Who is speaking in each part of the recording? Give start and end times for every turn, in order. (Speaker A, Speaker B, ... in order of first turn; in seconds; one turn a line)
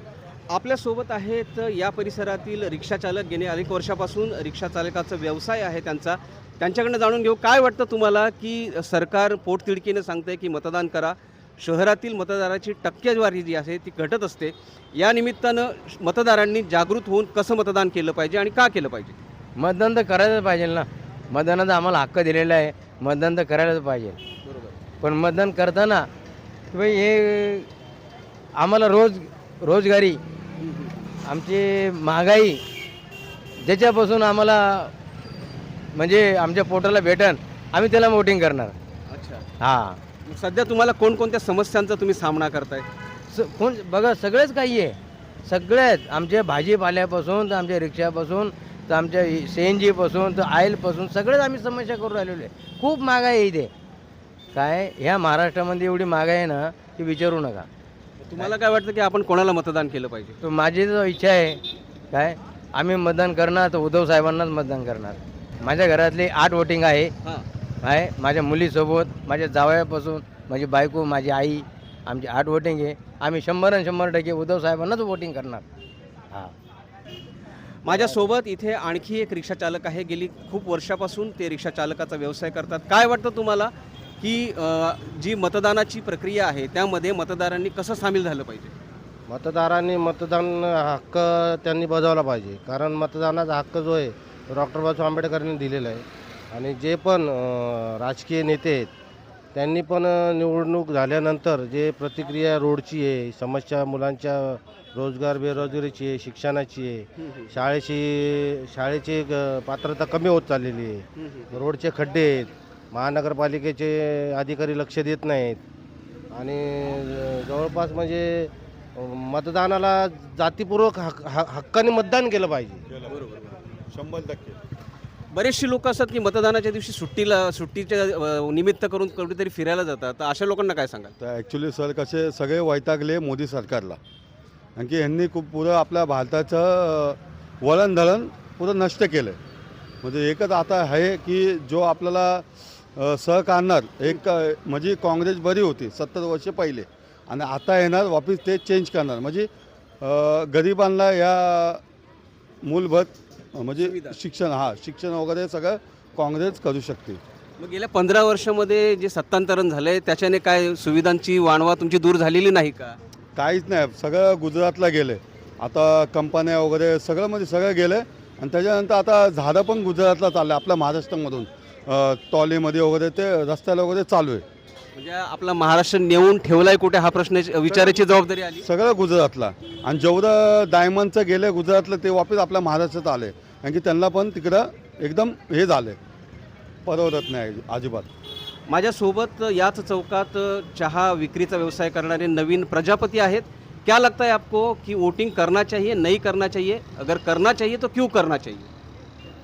Speaker A: 0.5-19.2
Speaker B: 19.6-24.2
Speaker A: 24.4-24.8
Speaker B: 25.0-26.1
Speaker B: 26.7-27.7
Speaker B: 28.6-30.2
Speaker A: 30.6-31.1
Speaker B: 31.2-32.6
Speaker B: 33.6-34.9
Speaker B: 35.9-38.7
Speaker A: 39.1-39.5
Speaker B: 39.6-40.0
Speaker A: 40.2-42.9
Speaker B: 43.3-53.7
Speaker B: 54.5-57.7
Speaker A: 58.2-60.4
Speaker B: 60.4-67.1
Speaker B: 67.8-75.6
Speaker A: 77.8-88.7
Speaker C: 89.3-98.9
Speaker C: 99.5-115.6
Speaker A: 107.2-107.5
Speaker A: 111.2-111.6
Speaker C: 116.3-122.8
Speaker D: 122.9-123.2
Speaker A: 123.1-123.6
Speaker D: 123.8-124.6
Speaker A: 125.3-131.1
Speaker D: 131.2-134.0
Speaker D: 134.8-139.4
Speaker D: 140.0-149.5
Speaker D: 150.0-151.8
Speaker D: 152.6-157.2
Speaker A: 153.8-154.2
Speaker A: 157.6-163.0
Speaker D: 163.3-174.4
Speaker A: 174.9-178.7
Speaker D: 177.7-178.1
Speaker D: 178.6-186.0
Speaker D: 186.8-188.1
Speaker A: 188.7-198.7